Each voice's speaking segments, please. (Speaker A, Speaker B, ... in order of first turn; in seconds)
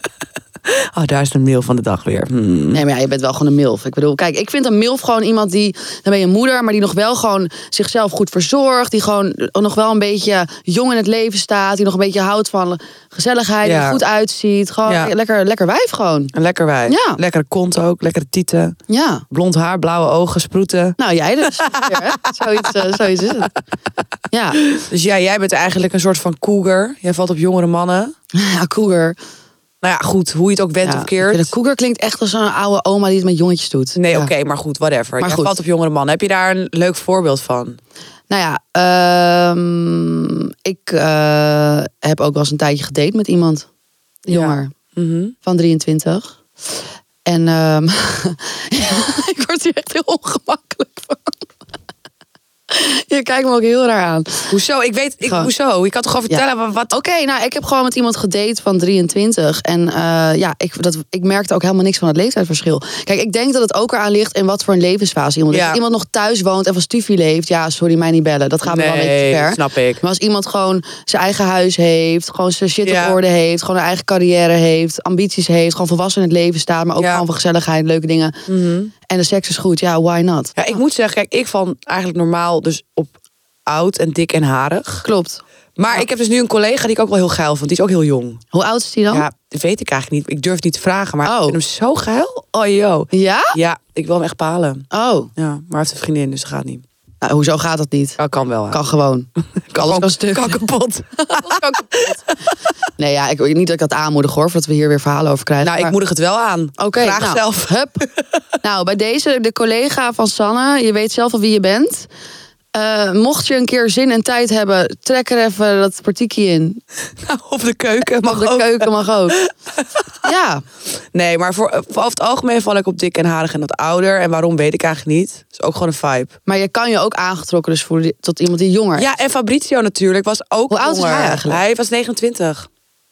Speaker A: 0.7-2.8, 13.6-14.0, 14.8-15.1, 16.3-18.7, 19.3-22.0, 22.6-23.2, 24.7-28.1, 29.8-31.5, 33.9-37.8, 44.3-45.3, 54.5-56.9, 65.5-65.8, 68.6-70.0, 72.8-73.2, 77.0-77.2, 78.5-78.9, 80.5-83.1, 83.7-85.1, 85.8-88.4, 89.1-94.8, 95.4-96.8, 98.2-98.8, 99.7-102.5, 105.6-108.0, 117.2-120.1, 121.1-126.3, 128.9-132.7
Speaker B: 2.7-16.3, 16.9-17.2, 18.9-19.2, 21.0-23.5, 24.3-24.6, 28.3-29.2, 30.8-34.3, 35.2-35.6, 38.3-43.7, 44.2-44.7, 45.4-46.4, 47.2-51.5, 52.7-54.6, 56.3-78.4, 79.1-80.6, 85.0-86.0, 88.5-89.3, 91.2-91.6, 93.1-93.5, 94.9-95.3, 97.2-98.2, 98.7-100.7, 101.2-102.2, 103.0-105.9, 106.8-108.0, 108.6-112.1, 112.7-116.8, 118.2-119.4, 120.2-120.6, 126.5-129.1, 130.7-131.6